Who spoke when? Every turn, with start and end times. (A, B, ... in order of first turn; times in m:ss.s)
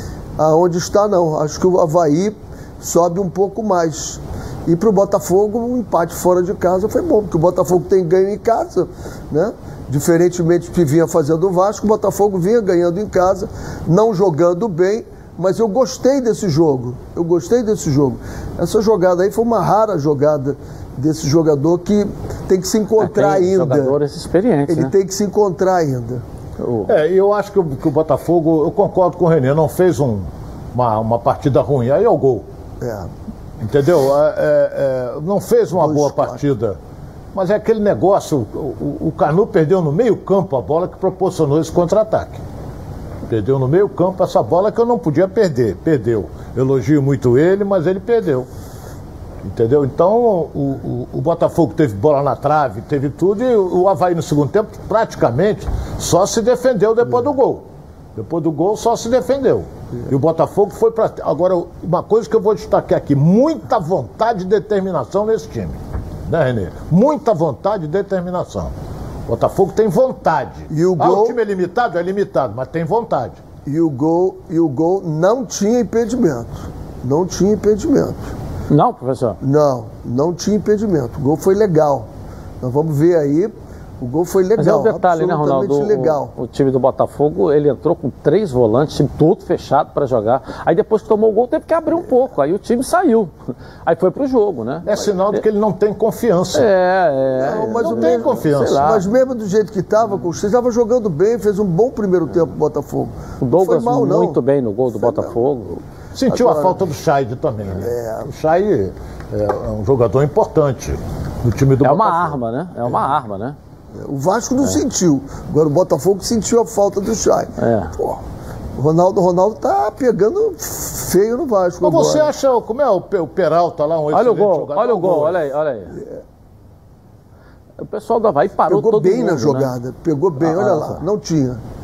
0:00.4-0:23.9 A
0:23.0-0:24.9 B
0:24.7-0:26.2 A
0:26.9-0:32.4 C
0:32.8-0:33.1 A
0:33.6-0:36.8 C
0:35.8-0:36.4 A
0:37.3-0:42.4 C
0:43.3-0:48.5 C
0:49.4-0:57.6 C
0:58.2-1:08.7 C
1:09.3-1:13.4 C
1:10.7-1:11.4 A
1:13.6-1:18.3 A
1:18.7-1:19.4 B
1:19.4-1:22.1 A
1:22.6-1:26.3 A
1:24.6-1:33.3 B
1:33.8-1:35.4 B
1:34.8-1:36.6 C
1:36.5-1:39.1 B
1:37.4-1:44.4 A
1:37.8-1:39.0 C
1:43.4-1:45.8 B
1:45.0-1:45.3 A
1:46.2-1:52.4 C
1:46.3-1:46.9 A
1:47.7-1:48.3 A
1:51.8-1:53.6 B
1:53.9-1:58.2 A
1:57.6-1:57.9 B
1:58.8-2:02.3 A
2:01.8-2:05.5 C
2:04.1-2:05.9 B
2:05.9-2:06.2 A
2:07.8-2:09.7 B
2:08.7-2:11.6 A
2:10.4-2:11.0 B